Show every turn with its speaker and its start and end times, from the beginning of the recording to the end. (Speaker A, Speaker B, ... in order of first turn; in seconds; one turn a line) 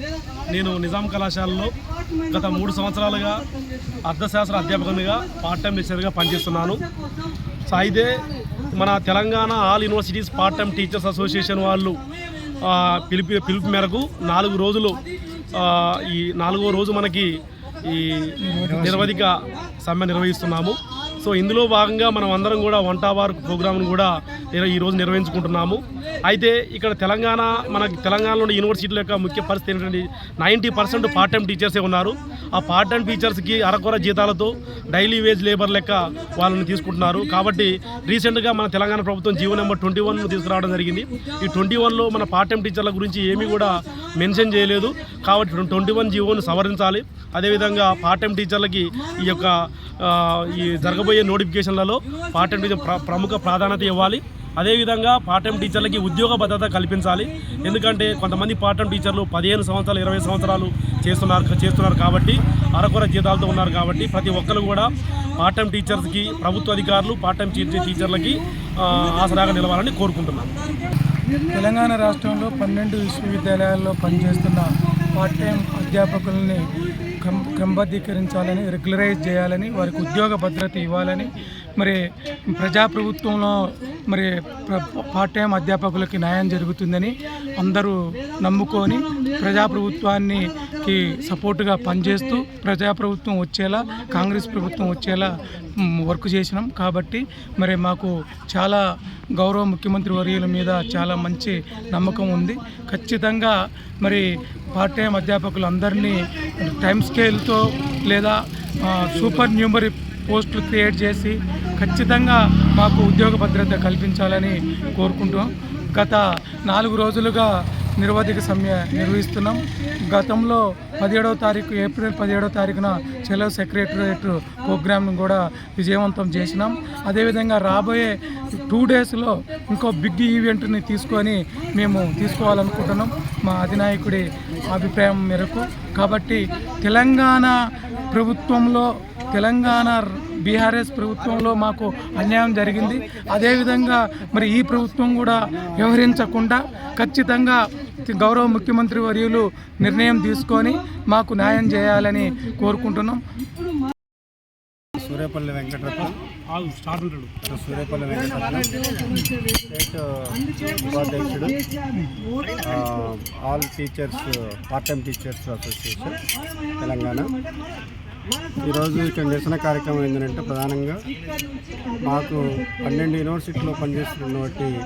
Speaker A: 0.5-1.7
Speaker A: 2.3-3.4
Speaker A: 4.1-6.8
Speaker A: 7.7-8.1
Speaker A: 8.7-12.0
Speaker A: 12.6-15.0
Speaker A: 15.5-17.3
Speaker A: 17.9-18.2
Speaker B: 18.4-19.1
Speaker C: 18.6-19.1
Speaker A: 18.8-70.5
Speaker B: 71.5-76.7
Speaker B: 77.2-82.0
Speaker B: 82.5-95.3
Speaker B: 96.0-98.8
Speaker B: 99.4-117.5
Speaker A: 109.0-109.5
Speaker B: 118.0-137.5
Speaker B: 138.1-153.2
Speaker C: 145.3-145.9
Speaker C: 155.0-156.2
Speaker A: 156.5-157.3
Speaker C: 157.5-158.7
Speaker C: 159.6-161.6
Speaker C: 162.6-166.2
Speaker C: 166.8-167.3
Speaker C: 168.6-171.0
Speaker C: 172.0-174.7